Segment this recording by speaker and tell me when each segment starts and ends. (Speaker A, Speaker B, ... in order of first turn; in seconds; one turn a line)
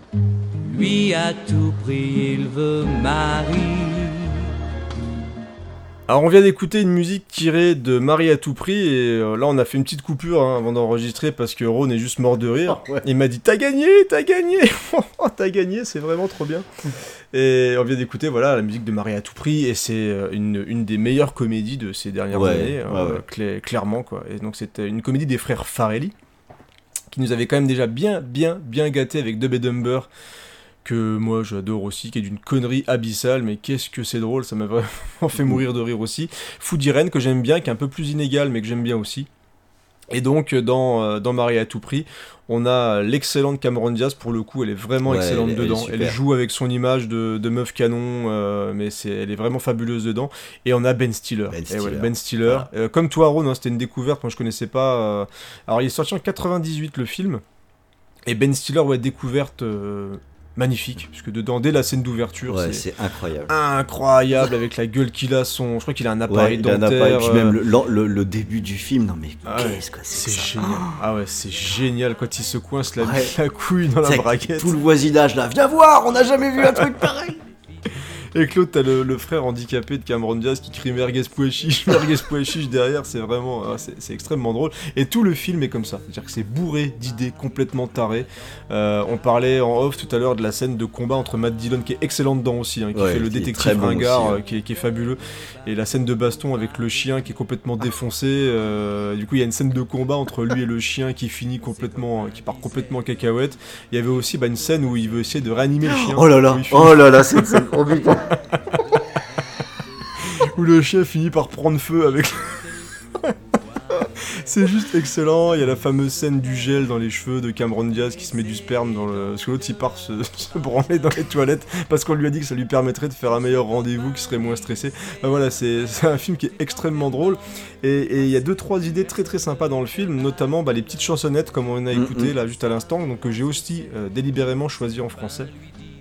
Speaker A: 0.7-4.5
Speaker B: 6.1-16.7
Speaker C: 12.7-13.1
Speaker B: 17.3-26.1
Speaker C: 22.3-23.2
Speaker B: 27.1-30.1
Speaker B: 30.8-39.3
Speaker B: 40.1-57.4
Speaker C: 45.0-46.2
Speaker C: 51.5-52.7
Speaker B: 58.3-62.9
Speaker C: 62.5-63.5
Speaker B: 63.5-67.6
Speaker C: 66.3-71.0
Speaker B: 69.5-74.7
Speaker C: 73.0-73.3
Speaker C: 74.0-77.4
Speaker B: 77.9-107.7
Speaker C: 92.9-94.4
Speaker C: 105.8-108.2
Speaker B: 108.3-108.8
Speaker B: 110.2-113.3
Speaker B: 113.9-135.5
Speaker C: 131.9-132.3